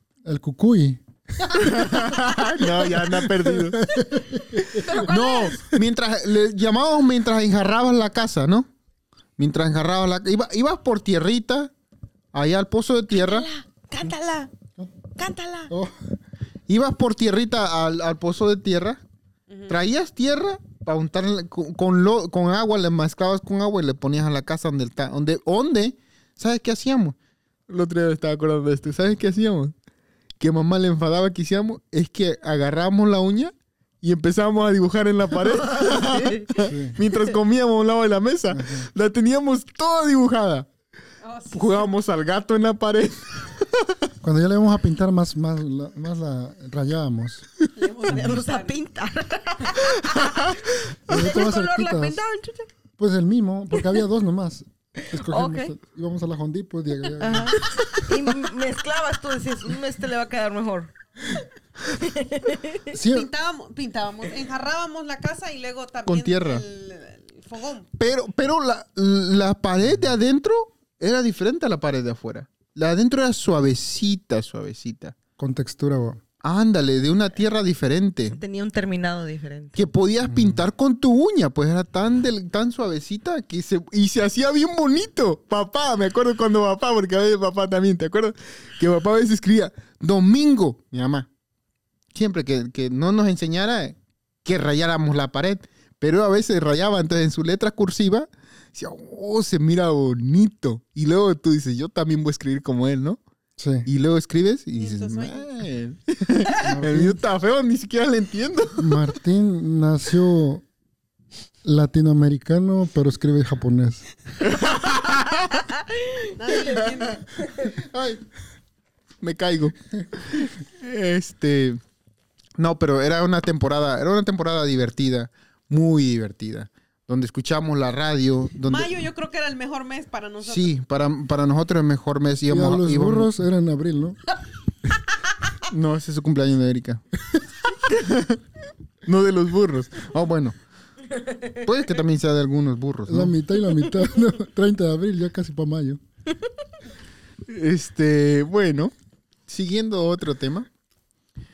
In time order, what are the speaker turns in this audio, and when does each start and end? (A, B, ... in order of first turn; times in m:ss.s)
0:00.2-0:01.6 A
0:01.6-0:03.9 B
0:01.6-0:02.2 C
0:03.6-0:04.9 A
0:04.7-0:05.7 D
0:04.8-0:08.7 B
0:09.4-0:11.7 B
0:12.3-0:13.5 B
0:13.1-0:14.5 D
0:15.2-0:15.7 D
0:15.7-0:16.1 A
0:16.7-0:19.0 B
0:19.5-0:19.8 C
0:19.7-0:27.2 B
0:27.7-0:29.7 B
0:30.4-0:40.7 B
0:35.5-0:36.5 D
0:36.6-0:37.0 A
0:38.5-0:38.9 A
0:41.2-0:41.9 C
0:41.5-0:43.9 B
0:44.2-0:47.5 A
0:47.7-0:48.8 C
0:48.1-0:52.7 D
0:51.1-0:52.2 A
0:53.0-0:57.6 A
0:55.1-0:55.7 D
0:57.2-1:02.9 D
1:02.9-1:03.3 A
1:03.1-1:07.9 C
1:06.1-1:06.6 B
1:08.0-1:15.2 B
1:15.4-1:16.2 A
1:16.4-1:18.4 B
1:18.3-1:19.8 D
1:19.8-1:31.3 B
1:20.2-1:20.6 A
1:32.1-1:43.2 B
1:43.6-1:43.9 A
1:43.8-1:49.0 B
1:44.8-1:45.6 C
1:46.6-1:47.2 A
1:48.8-1:50.6 A
1:51.6-1:54.1 A
1:54.4-1:55.6 B
1:56.4-1:57.2 C
1:57.6-1:58.2 B
1:59.2-2:01.8 B
2:02.6-2:08.9 B
2:08.6-2:10.8 C
2:10.4-2:13.3 B
2:12.5-2:14.2 A
2:15.6-2:17.0 B
2:17.8-2:18.4 B
2:19.0-2:20.6 B
2:21.6-2:23.4 B
2:23.1-2:26.0 A
2:27.5-2:28.9 B
2:29.5-2:30.7 B